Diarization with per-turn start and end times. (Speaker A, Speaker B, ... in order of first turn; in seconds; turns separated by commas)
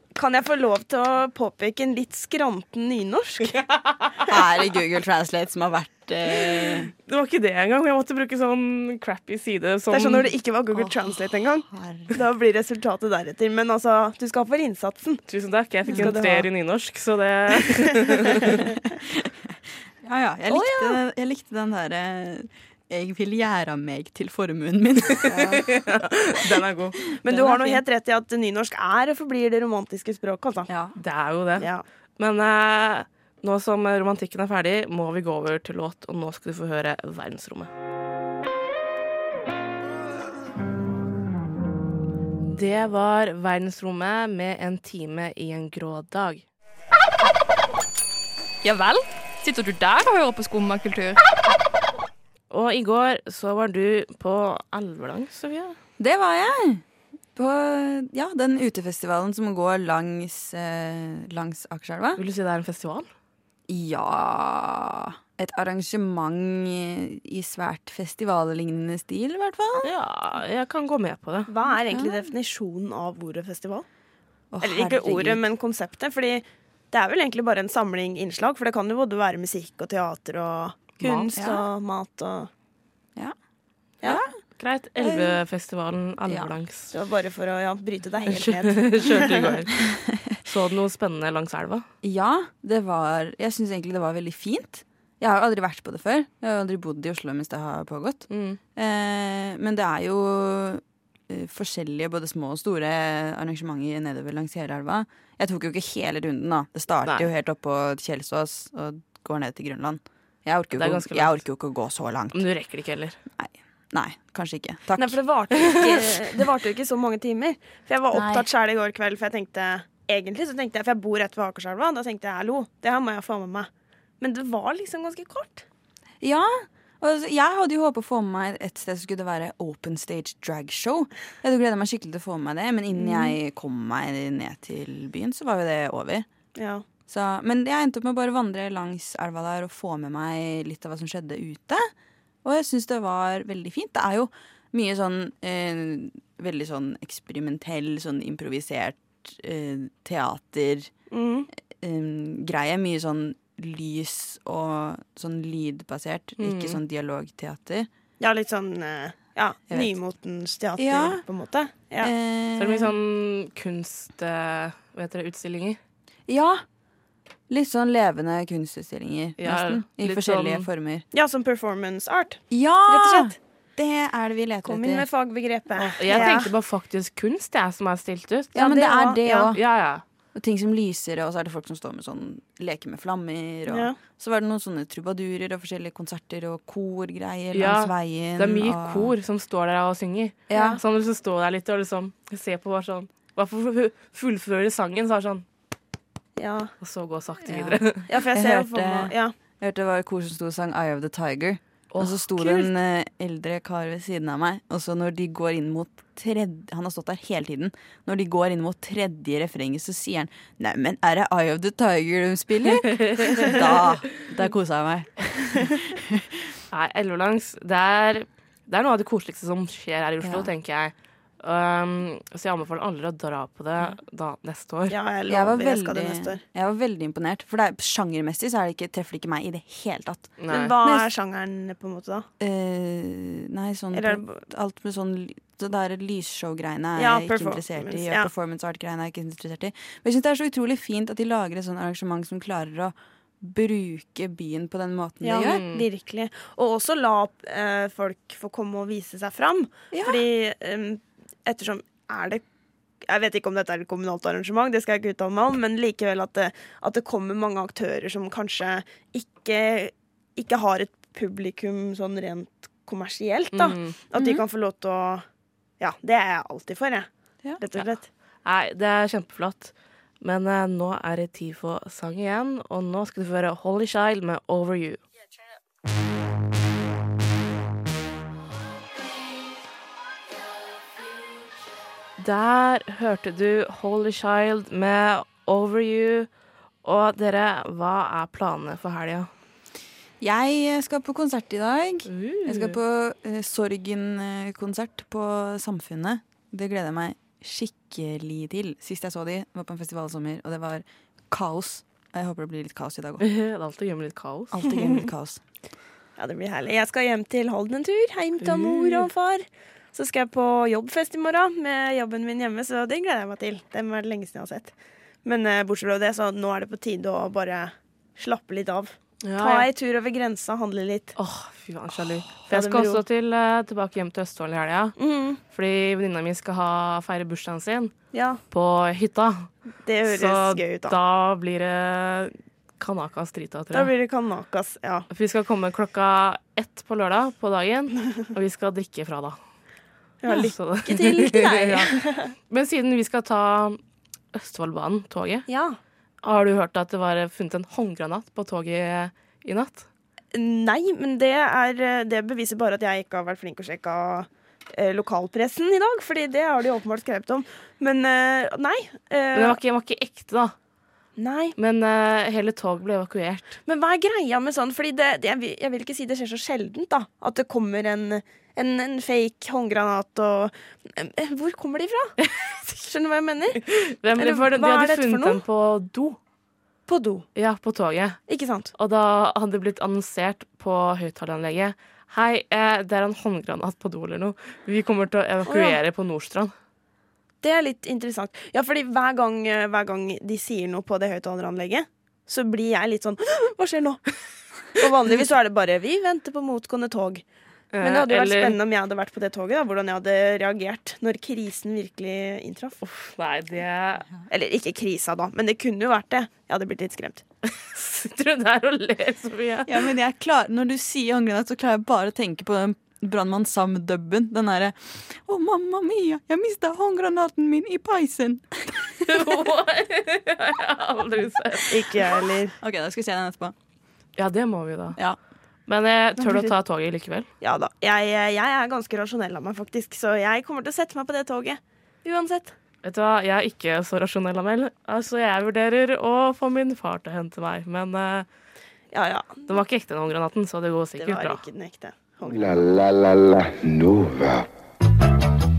Speaker A: 0.1-3.6, Speaker B: 3.5-4.3, Speaker C: 4.3-6.9, Speaker B: 7.0-10.3, Speaker A: 9.9-15.3, Speaker C: 10.7-12.1, Speaker B: 15.3-18.6, Speaker A: 15.9-16.5, Speaker C: 15.9-16.1, Speaker C: 19.0-25.9, Speaker A: 20.5-21.0, Speaker B: 25.2-27.0, Speaker C: 27.2-27.8, Speaker A: 27.2-30.7, Speaker C: 30.7-31.0, Speaker B: 31.0-31.7, Speaker A: 31.6-31.8, Speaker B: 32.2-37.7, Speaker B: 42.5-46.5, Speaker D: 48.6-51.2, Speaker B: 52.5-55.8, Speaker C: 56.0-56.8, Speaker C: 57.4-62.2, Speaker B: 62.2-63.1, Speaker C: 63.7-69.9, Speaker B: 69.8-71.5, Speaker A: 71.5-73.8, Speaker C: 71.9-72.3, Speaker C: 74.5-75.4, Speaker A: 74.6-82.5, Speaker B: 81.0-81.3, Speaker C: 81.4-81.6, Speaker B: 84.6-86.9, Speaker C: 85.0-85.4, Speaker C: 86.3-86.5, Speaker A: 86.9-89.4, Speaker B: 88.3-89.8, Speaker C: 89.9-90.3, Speaker B: 90.5-91.9, Speaker C: 92.0-112.5, Speaker B: 98.3-98.6, Speaker B: 110.8-111.4, Speaker B: 112.3-113.2, Speaker C: 113.4-115.2, Speaker A: 115.0-123.7, Speaker C: 118.1-118.5, Speaker A: 124.2-125.7, Speaker C: 126.2-136.3, Speaker A: 133.1-133.3, Speaker A: 136.6-136.8, Speaker C: 137.1-141.9, Speaker C: 142.4-150.9, Speaker A: 151.1-151.5, Speaker C: 151.7-157.9, Speaker B: 156.4-156.8, Speaker A: 158.2-162.1, Speaker C: 160.8-161.2, Speaker C: 162.0-163.0, Speaker B: 162.6-165.8, Speaker C: 166.3-166.6, Speaker C: 167.5-171.1, Speaker B: 169.4-170.7, Speaker A: 171.1-173.4, Speaker C: 172.5-175.1, Speaker A: 174.7-176.5, Speaker B: 175.9-178.6, Speaker C: 178.6-179.6, Speaker A: 178.6-179.5, Speaker B: 179.5-180.0, Speaker C: 180.3-189.1, Speaker A: 183.7-184.0, Speaker B: 187.5-195.4, Speaker C: 190.5-190.8, Speaker A: 190.5-190.8, Speaker A: 196.4-196.7, Speaker B: 196.8-198.1, Speaker C: 197.4-216.4, Speaker A: 198.1-199.3, Speaker B: 201.9-202.6, Speaker B: 212.8-213.6, Speaker B: 216.7-224.9, Speaker C: 220.2-220.5, Speaker A: 224.9-226.4, Speaker C: 225.3-231.1, Speaker B: 230.4-230.8, Speaker A: 230.5-232.3, Speaker C: 232.4-245.6, Speaker A: 233.9-234.4, Speaker A: 237.0-238.3, Speaker A: 245.2-252.4, Speaker B: 245.4-245.8, Speaker C: 249.9-250.2, Speaker A: 253.0-265.2, Speaker B: 263.5-264.0, Speaker C: 264.1-264.4, Speaker A: 265.8-268.1, Speaker B: 268.4-275.0, Speaker B: 282.2-286.3, Speaker B: 286.8-289.3, Speaker C: 290.2-303.3, Speaker B: 292.1-292.8, Speaker B: 303.2-304.7, Speaker C: 304.5-305.4, Speaker A: 306.2-314.7, Speaker B: 308.5-309.1, Speaker A: 315.2-321.1, Speaker B: 319.2-319.7, Speaker B: 321.2-324.9, Speaker A: 322.5-323.0, Speaker A: 325.0-325.4, Speaker B: 325.5-327.9, Speaker A: 328.1-328.4, Speaker B: 328.5-329.5, Speaker A: 329.8-331.0, Speaker B: 330.1-333.9, Speaker A: 333.7-335.1, Speaker B: 335.1-339.4, Speaker A: 340.2-342.3, Speaker B: 340.3-343.8, Speaker B: 344.3-345.5, Speaker A: 345.5-345.8, Speaker B: 346.2-349.9, Speaker A: 350.3-359.6, Speaker B: 359.3-360.6, Speaker A: 361.2-361.6, Speaker B: 361.6-363.6, Speaker A: 363.7-372.2, Speaker B: 372.2-372.6, Speaker A: 372.8-375.4, Speaker B: 373.6-376.2, Speaker A: 376.9-377.3, Speaker B: 377.4-378.2, Speaker A: 378.3-378.7, Speaker B: 378.8-386.5, Speaker A: 385.5-385.8, Speaker A: 387.4-394.1, Speaker A: 394.7-397.2, Speaker B: 397.7-398.6, Speaker A: 397.8-402.8, Speaker B: 402.8-404.1, Speaker A: 404.3-407.2, Speaker B: 407.4-409.8, Speaker C: 409.7-419.3, Speaker B: 419.0-421.9, Speaker A: 421.7-422.6, Speaker C: 422.6-423.6, Speaker B: 424.2-425.0, Speaker B: 425.7-427.3, Speaker A: 427.4-432.6, Speaker B: 432.8-438.3, Speaker A: 438.9-439.6, Speaker B: 439.5-441.4, Speaker A: 441.0-442.7, Speaker E: 442.2-444.5